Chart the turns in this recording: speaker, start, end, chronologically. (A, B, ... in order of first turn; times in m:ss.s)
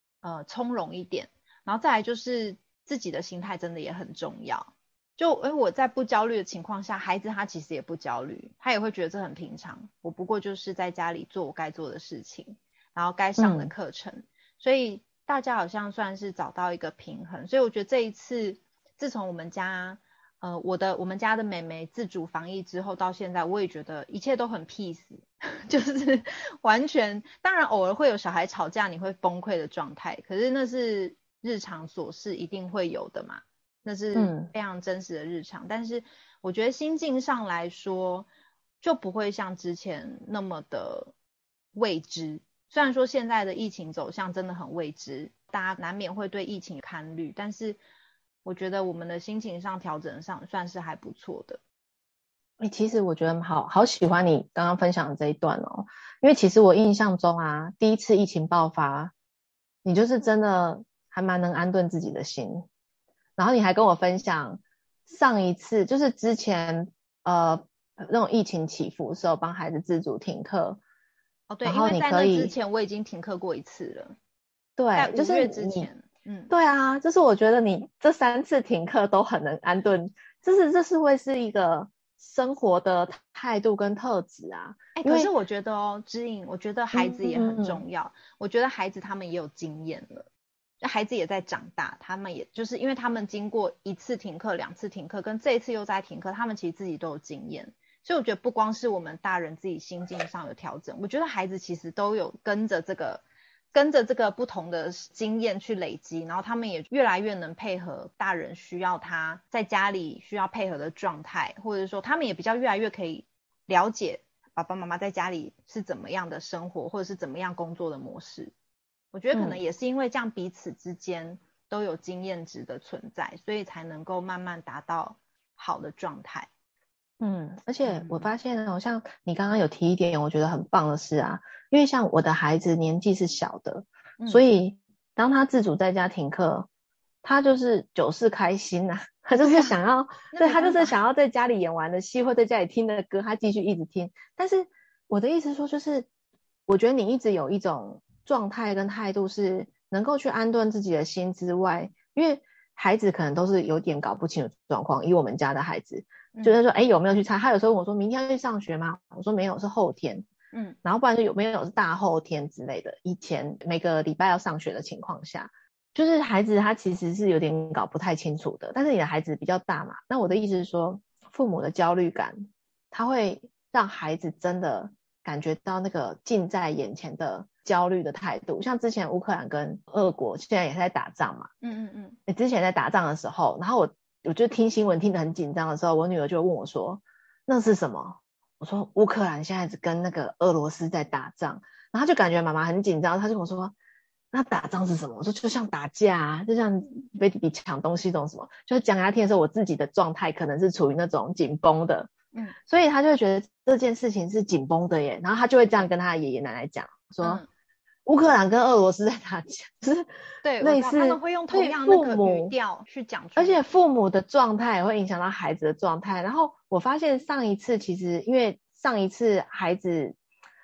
0:00.2-0:38.3 A
0:13.4-0:13.7 B
0:34.1-0:34.5 B
0:38.8-0:41.1 A
0:41.7-0:47.8 A
0:48.4-0:51.6 A
0:52.6-0:59.1 B
0:59.8-1:02.6 B
1:03.4-1:10.8 B
1:11.5-1:14.2 A
1:11.6-1:12.5 B
1:14.8-1:15.9 B
1:15.0-1:16.5 A
1:16.5-1:25.3 B
1:25.0-1:30.3 A
1:26.9-1:27.8 B
1:30.8-1:58.5 A
1:59.1-2:06.5 A
1:59.3-1:59.6 B
2:07.2-2:16.7 B
2:07.8-2:08.3 A
2:14.2-2:14.4 A
2:17.2-2:26.1 B
2:19.4-2:19.7 A
2:20.3-2:21.0 A
2:26.7-2:40.2 B
2:40.8-3:01.5 B
3:01.6-3:02.2 A
3:02.3-3:13.7 B
3:14.3-3:22.1 B
3:22.6-3:27.4 B
3:27.2-3:27.5 A
3:28.0-3:30.1 B
3:30.4-3:33.6 A
3:30.6-3:32.5 B
3:33.4-3:40.1 B